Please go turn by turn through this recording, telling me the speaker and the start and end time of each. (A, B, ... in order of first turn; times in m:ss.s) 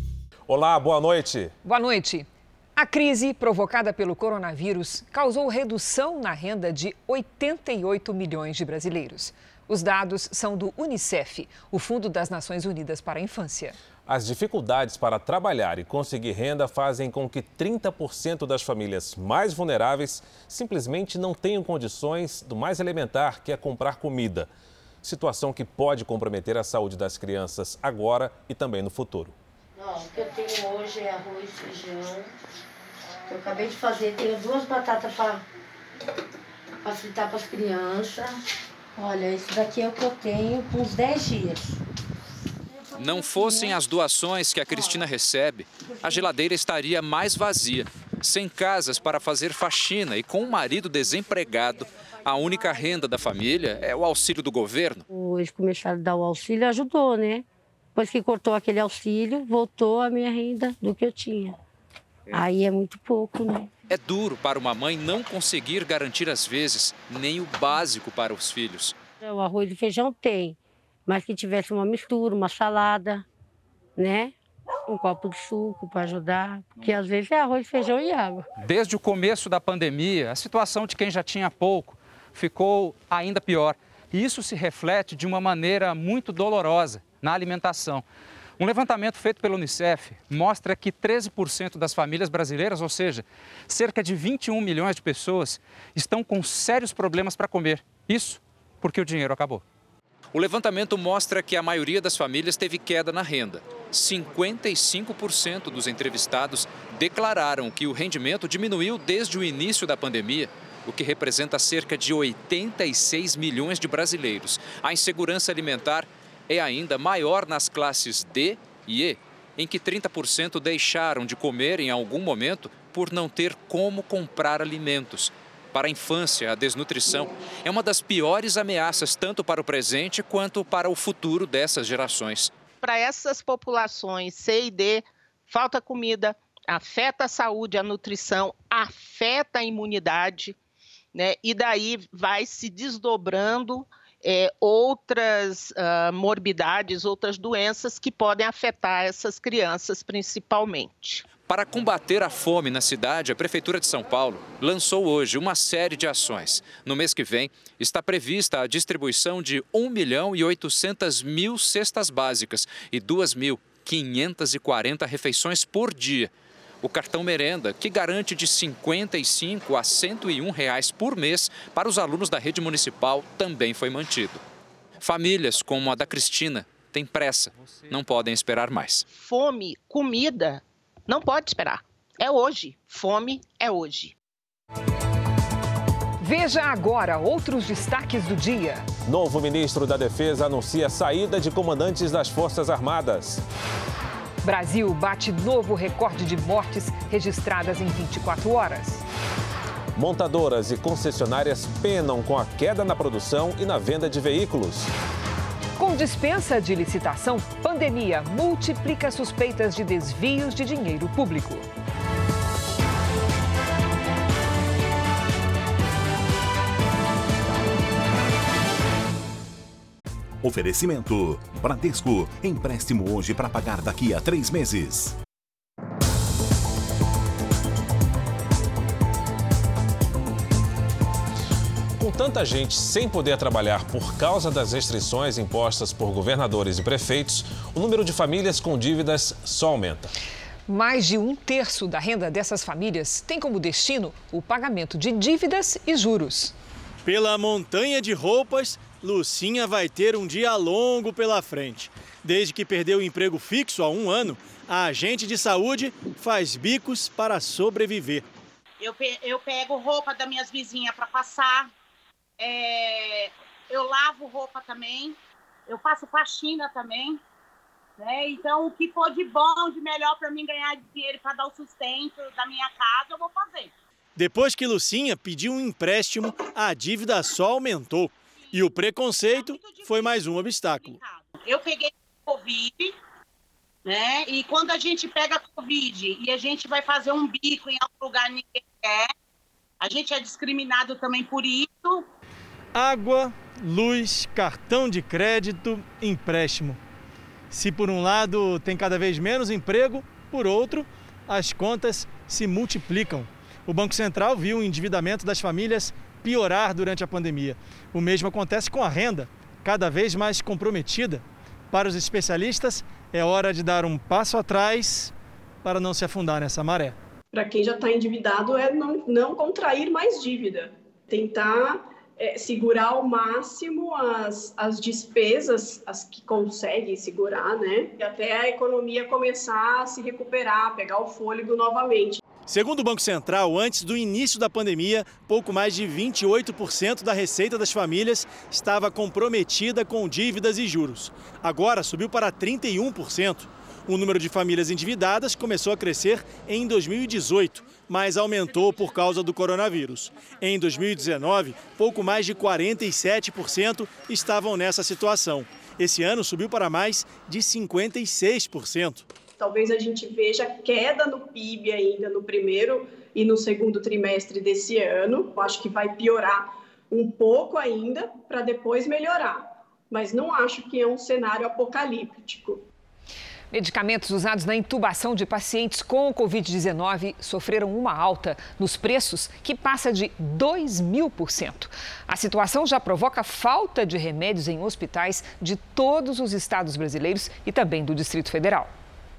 0:00.5-0:01.5 A
0:01.6-0:13.8 B
0:14.0-0:24.5 A
0:25.0-0:29.4 A
0:29.8-0:32.3 C
0:33.3-0:35.4 C
0:36.8-0:38.4 C
0:39.0-0:41.8 C
0:43.0-0:55.0 D
0:55.1-1:01.6 C
1:02.3-1:03.7 C
1:03.9-1:09.0 D
1:09.2-1:13.2 C
1:14.0-1:14.3 C
1:14.9-1:18.5 C
1:18.6-1:28.0 E
1:28.6-1:39.6 E
1:40.3-2:12.5 D
2:12.8-2:20.6 F
2:21.1-2:31.3 F
2:31.4-2:46.3 D
2:46.8-2:54.4 D
2:55.0-2:59.0 D
2:59.1-3:04.1 F
3:06.2-3:08.8 B
3:09.0-3:13.4 A
3:14.4-3:19.0 B
3:19.9-3:24.9 A
3:25.8-3:31.7 B
3:40.4-3:45.1 G
3:52.0-4:00.1 A
4:00.7-4:06.5 B
4:07.0-4:18.3 H
4:18.8-4:21.7 I
4:22.4-4:27.2 I
4:28.0-4:33.7 I
4:34.2-4:41.0 H
4:39.3-4:40.2 I
4:40.8-4:42.9 I
4:43.8-4:49.1 I
4:49.8-4:52.0 I
4:52.7-4:56.8 H
4:57.5-5:15.1 H
5:15.6-5:17.0 H
5:17.3-5:32.2 J
5:32.4-5:59.1 H
5:59.4-6:12.6 J
6:13.5-6:28.7 B